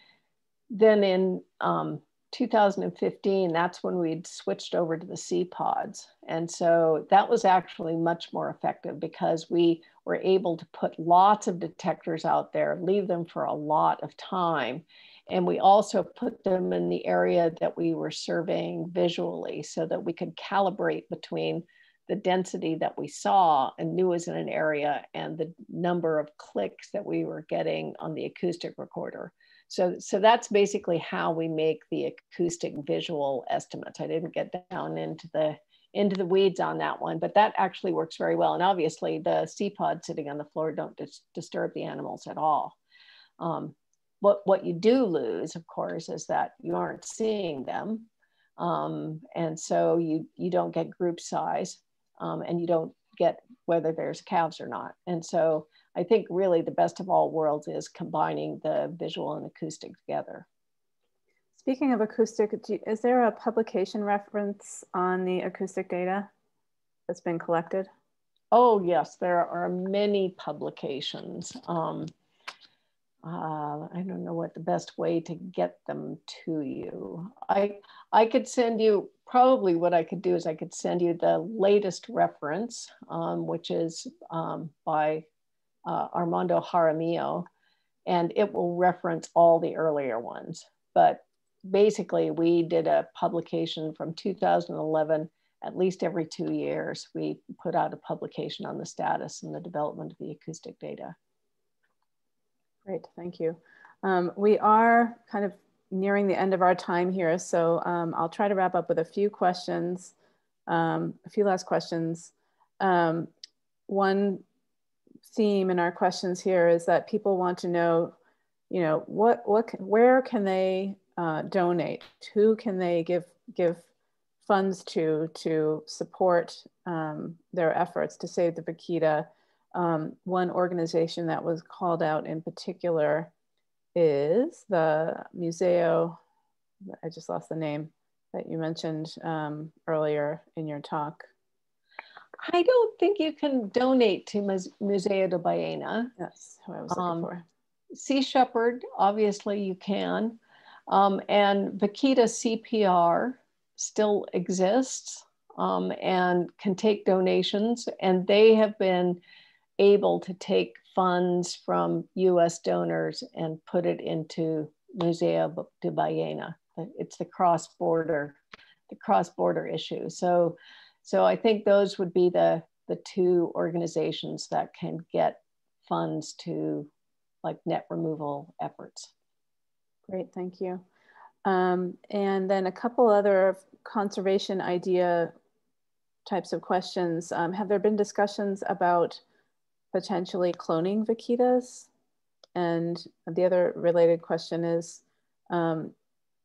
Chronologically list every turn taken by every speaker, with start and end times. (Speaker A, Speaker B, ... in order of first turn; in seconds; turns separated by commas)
Speaker A: 0.7-42.8, Speaker A: 43.4-60.5, Speaker B: 61.6-66.3, Speaker B: 67.1-67.9, Speaker A: 68.5-72.1, Speaker A: 73.2-85.3, Speaker A: 85.9-87.5, Speaker A: 88.1-101.2, Speaker B: 102.8-110.1, Speaker B: 110.7-113.3, Speaker B: 113.9-114.4, Speaker B: 115.2-118.1, Speaker B: 118.7-123.9, Speaker B: 124.4-133.3, Speaker B: 133.9-136.2, Speaker B: 136.9-141.3, Speaker A: 142.4-146.1, Speaker B: 146.2-147.4, Speaker A: 146.9-147.3, Speaker A: 147.9-159.2, Speaker A: 159.8-176.9, Speaker A: 177.4-179.1, Speaker B: 180.1-180.8, Speaker B: 181.4-185.3, Speaker B: 186.2-189.2, Speaker B: 189.9-191.9, Speaker B: 192.6-195.9